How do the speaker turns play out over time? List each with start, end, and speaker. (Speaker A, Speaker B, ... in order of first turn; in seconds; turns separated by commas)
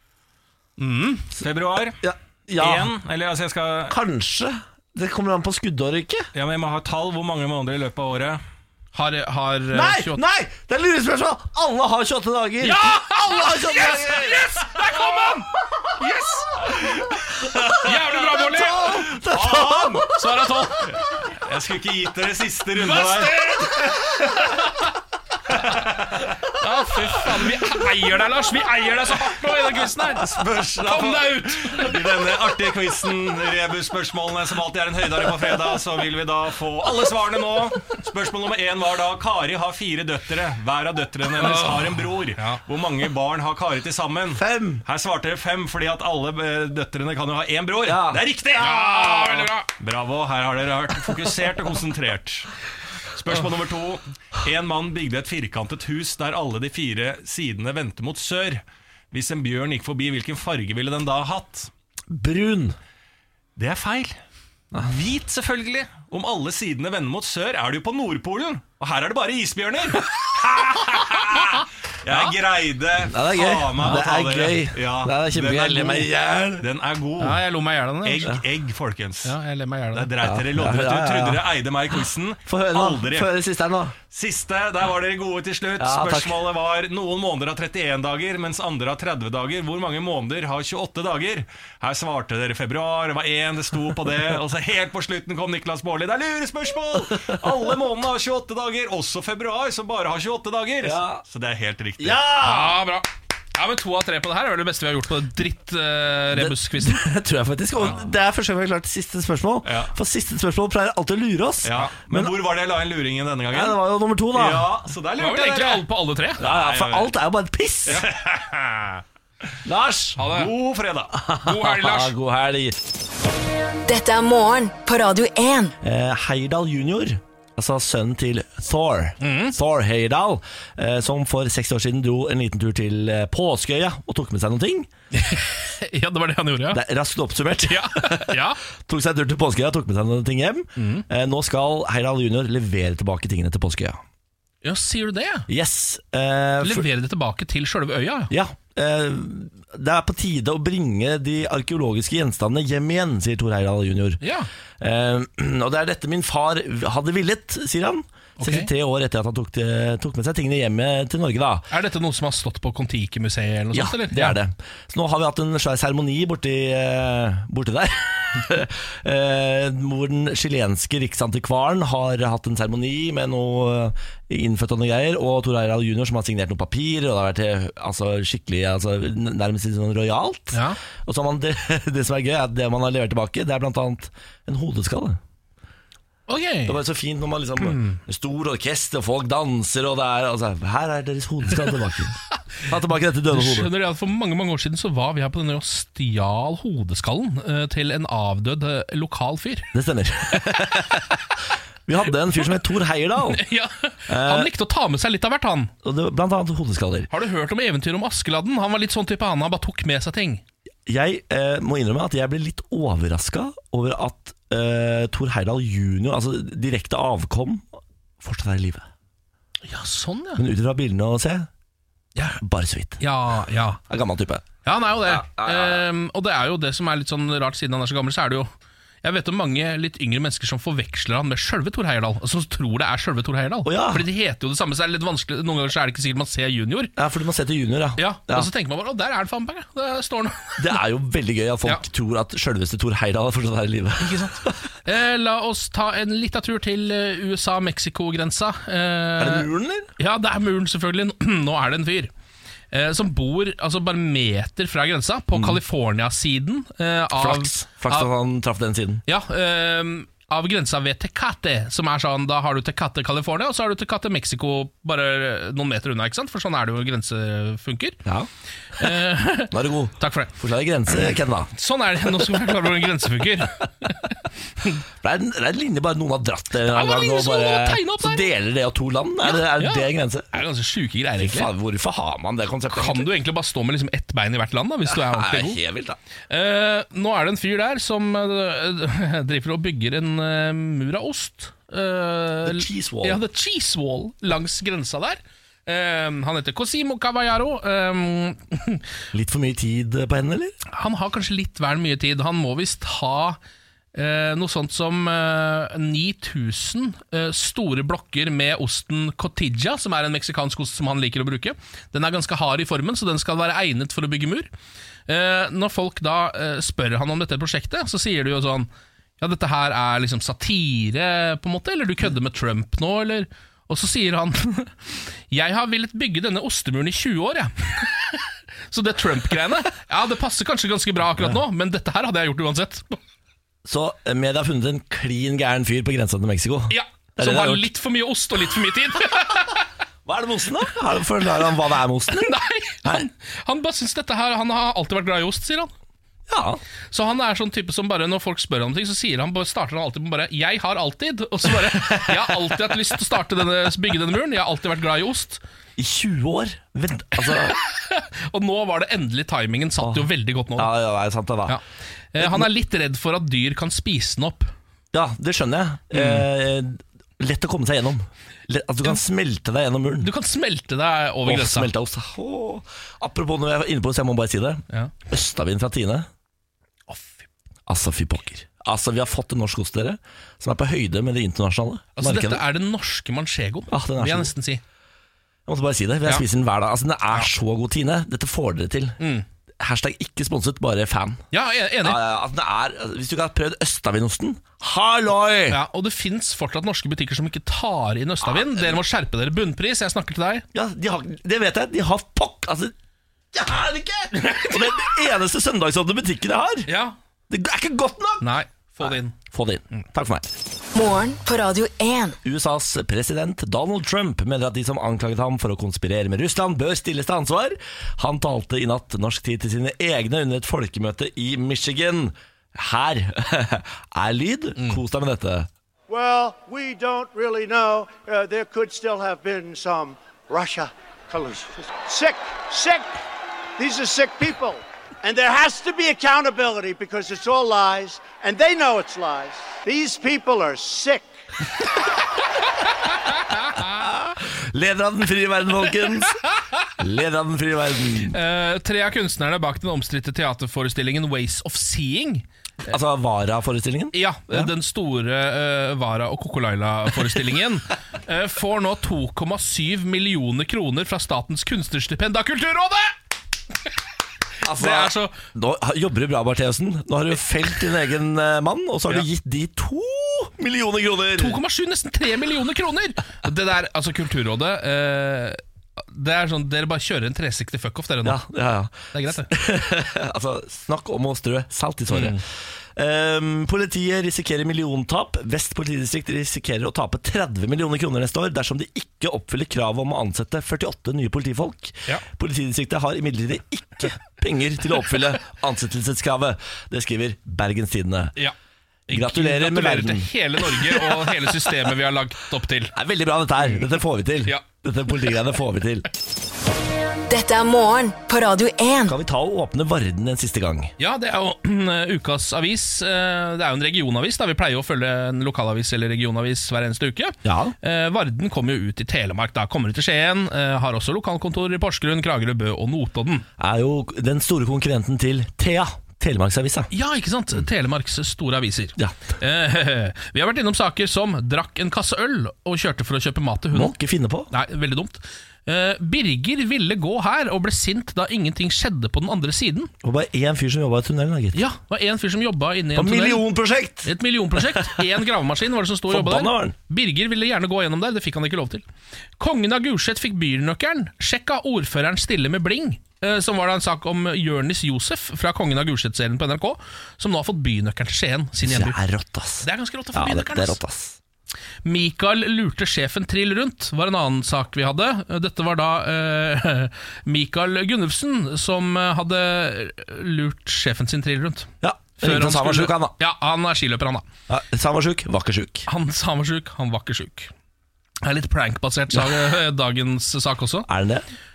Speaker A: 0.8-1.3, Speaker B: 1.4-2.0, Speaker C: 2.0-2.9, Speaker B: 2.5-3.9, Speaker C: 3.9-6.3, Speaker B: 6.3-8.4, Speaker A: 8.9-10.2, Speaker C: 9.7-14.5, Speaker A: 12.6-16.7, Speaker B: 16.9-17.9, Speaker A: 17.8-19.1, Speaker C: 18.4-20.1, Speaker B: 19.2-20.1, Speaker A: 20.1-20.9, Speaker B: 20.9-23.4, Speaker A: 22.8-24.7, Speaker B: 25.5-26.3, Speaker A: 26.5-32.0, Speaker B: 30.1-52.5, Speaker A: 41.4-42.6, Speaker C: 44.3-44.8, Speaker C: 47.8-48.2, Speaker A: 48.6-49.7, Speaker B: 53.1-61.7, Speaker C: 62.1-62.8, Speaker B: 63.5-64.2, Speaker B: 64.8-77.4, Speaker C: 73.1-76.7, Speaker A: 77.2-78.3, Speaker B: 78.0-79.3, Speaker A: 79.2-80.1, Speaker B: 79.9-83.3, Speaker C: 80.2-81.4, Speaker C: 82.5-83.9, Speaker B: 84.1-102.3, Speaker C: 85.8-86.4, Speaker C: 100.8-101.2, Speaker C: 102.0-102.8, Speaker A: 102.4-107.0, Speaker C: 106.3-112.3, Speaker B: 109.6-109.9, Speaker B: 111.6-113.8, Speaker C: 113.5-114.7, Speaker B: 114.3-115.8, Speaker A: 115.2-116.4, Speaker B: 116.4-117.1, Speaker C: 116.4-118.0, Speaker B: 117.9-119.0, Speaker C: 119.6-120.2, Speaker A: 120.2-120.5, Speaker B: 120.2-121.2, Speaker C: 121.2-122.8, Speaker A: 121.4-122.1, Speaker D: 123.9-125.7, Speaker C: 125.8-134.9, Speaker A: 129.2-129.6, Speaker A: 135.1-136.8, Speaker C: 136.7-144.0, Speaker A: 137.6-138.6, Speaker A: 140.8-141.0, Speaker A: 144.6-145.5, Speaker C: 145.5-146.8, Speaker A: 146.6-148.3, Speaker C: 148.3-154.2, Speaker A: 154.2-154.5, Speaker C: 154.8-161.7, Speaker A: 158.4-158.7, Speaker A: 161.7-164.4, Speaker C: 163.7-185.2, Speaker A: 180.5-180.8, Speaker A: 186.3-186.8, Speaker C: 186.7-193.7, Speaker A: 187.6-188.0, Speaker A: 193.3-199.7, Speaker C: 199.7-201.2, Speaker C: 201.9-203.4, Speaker A: 203.3-205.7, Speaker C: 204.1-204.5, Speaker C: 205.8-207.1, Speaker A: 207.1-210.4, Speaker C: 210.9-218.8, Speaker A: 219.6-220.4, Speaker C: 220.3-221.5, Speaker C: 222.4-223.0, Speaker A: 223.0-223.8, Speaker C: 223.9-224.4, Speaker A: 224.6-228.5, Speaker C: 225.1-225.8, Speaker A: 229.0-236.9, Speaker C: 233.6-234.1, Speaker C: 236.9-238.5, Speaker A: 238.0-240.8, Speaker C: 240.6-244.5, Speaker A: 244.0-252.1, Speaker C: 249.2-249.9, Speaker A: 252.7-258.1, Speaker C: 255.3-255.6, Speaker C: 257.1-259.0, Speaker A: 259.1-268.0, Speaker C: 268.0-268.9, Speaker A: 268.8-270.3, Speaker C: 269.5-271.5, Speaker A: 271.5-274.7, Speaker C: 275.0-280.3, Speaker A: 276.6-278.2, Speaker A: 279.2-281.5, Speaker C: 281.2-283.1, Speaker A: 282.7-285.6, Speaker C: 284.9-286.0, Speaker A: 286.3-298.8, Speaker C: 292.4-293.2, Speaker C: 299.1-300.5, Speaker A: 300.7-303.4, Speaker A: 303.9-314.5, Speaker A: 315.1-324.7, Speaker A: 325.3-333.0, Speaker C: 333.6-337.7, Speaker A: 336.7-339.6, Speaker C: 340.1-342.3, Speaker A: 342.1-345.7, Speaker C: 346.3-346.6, Speaker A: 346.9-355.4, Speaker C: 351.6-352.4, Speaker C: 355.8-357.6, Speaker A: 357.3-360.7, Speaker C: 359.8-361.6, Speaker A: 362.1-364.5, Speaker C: 362.2-362.5, Speaker C: 364.9-370.1, Speaker A: 365.9-366.3, Speaker A: 370.0-371.7, Speaker C: 371.2-376.1, Speaker A: 376.9-377.2, Speaker C: 377.7-382.4, Speaker A: 381.9-384.6, Speaker C: 383.7-384.3, Speaker C: 385.5-389.0, Speaker A: 389.0-389.2, Speaker C: 389.6-391.2, Speaker A: 391.3-392.0, Speaker C: 391.8-395.6, Speaker A: 395.5-400.4, Speaker C: 398.2-398.8, Speaker C: 400.5-402.7, Speaker C: 403.3-406.7, Speaker A: 404.2-404.9, Speaker A: 406.7-406.9, Speaker C: 407.3-410.3, Speaker A: 408.2-409.1, Speaker D: 410.7-412.2, Speaker C: 412.2-425.5, Speaker E: 425.9-433.0, Speaker E: 433.6-441.1, Speaker A: 443.1-443.6, Speaker C: 443.6-446.2, Speaker C: 446.8-448.2, Speaker A: 448.1-452.2, Speaker C: 452.7-454.5, Speaker A: 453.9-462.9, Speaker C: 464.4-471.4, Speaker A: 464.5-465.1, Speaker A: 471.1-478.2, Speaker C: 478.0-482.2, Speaker A: 478.9-479.3, Speaker A: 481.9-482.2, Speaker C: 482.8-498.1, Speaker A: 498.9-502.7, Speaker C: 498.9-501.5, Speaker C: 502.7-505.9, Speaker D: 507.1-509.0, Speaker C: 508.9-510.7, Speaker A: 510.8-523.2, Speaker C: 517.2-517.5, Speaker C: 523.4-526.7, Speaker A: 526.7-533.8, Speaker C: 533.5-534.3, Speaker A: 534.3-539.7, Speaker C: 539.8-541.4, Speaker A: 541.3-543.2, Speaker C: 542.7-544.9, Speaker A: 543.8-548.6, Speaker C: 545.9-546.5, Speaker A: 549.2-558.8, Speaker C: 558.4-561.0, Speaker A: 559.4-560.6, Speaker A: 561.6-574.0, Speaker C: 571.6-572.9, Speaker C: 574.3-575.7, Speaker A: 575.7-577.3, Speaker A: 578.0-580.7, Speaker C: 580.7-581.0